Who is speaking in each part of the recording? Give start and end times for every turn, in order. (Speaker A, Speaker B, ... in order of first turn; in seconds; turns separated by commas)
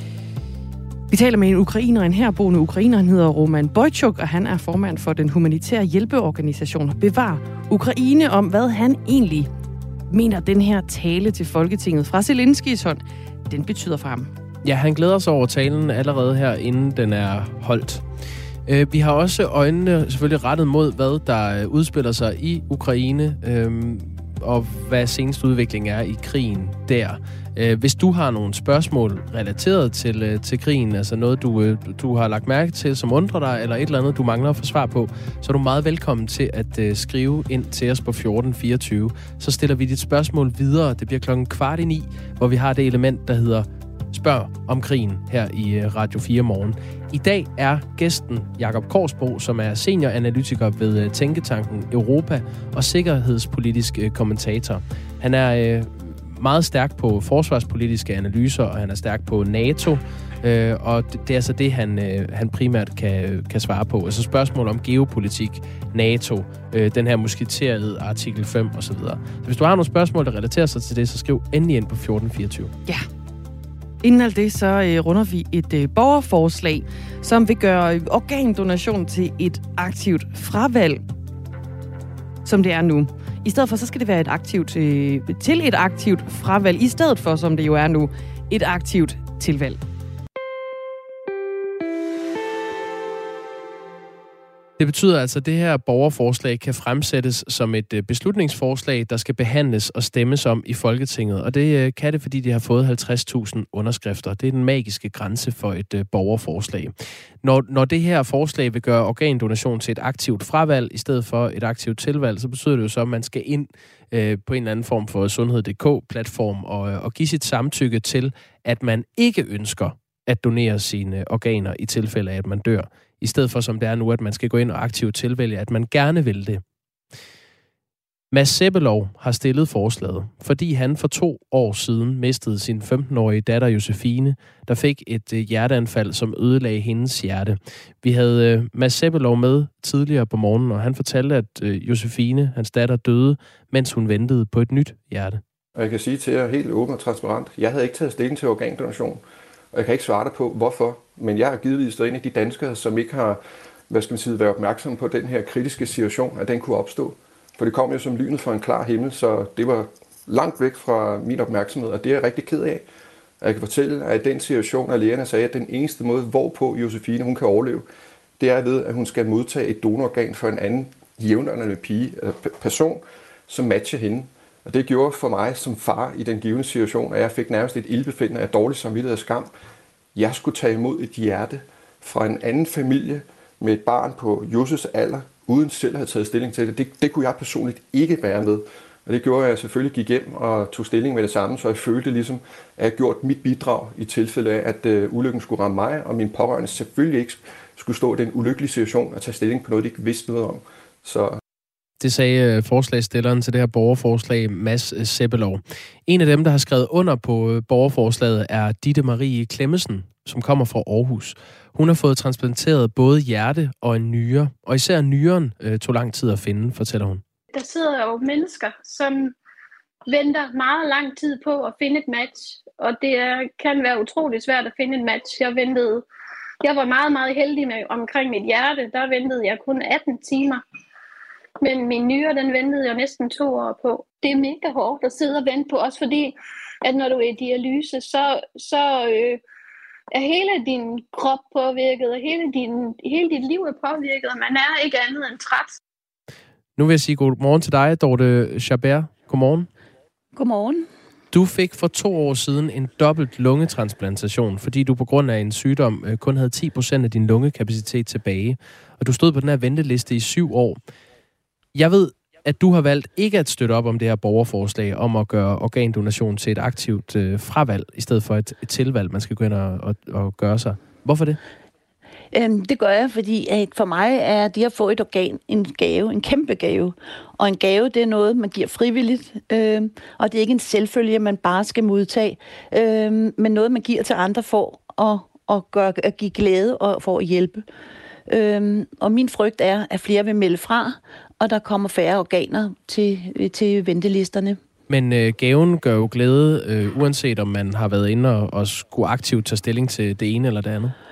Speaker A: 1.1-9.5, Speaker A: 10.1-14.3, Speaker B: 14.6-18.1, Speaker B: 18.7-72.7, Speaker A: 74.0-81.0, Speaker A: 82.5-89.8, Speaker B: 94.8-126.6, Speaker B: 128.3-145.4, Speaker C: 145.8-149.2, Speaker C: 149.7-162.8, Speaker C: 163.4-167.8, Speaker C: 168.4-179.5, Speaker C: 180.2-201.4, Speaker B: 202.0-217.2, Speaker D: 217.5-219.3, Speaker D: 220.1-226.1, Speaker D: 226.6-230.6, Speaker D: 231.6-239.4, Speaker D: 240.1-245.8, Speaker B: 246.8-249.7, Speaker E: 250.3-250.9, Speaker B: 251.3-260.8, Speaker B: 261.7-271.4, Speaker E: 272.3-287.7, Speaker E: 288.3-294.6, Speaker B: 294.9-300.9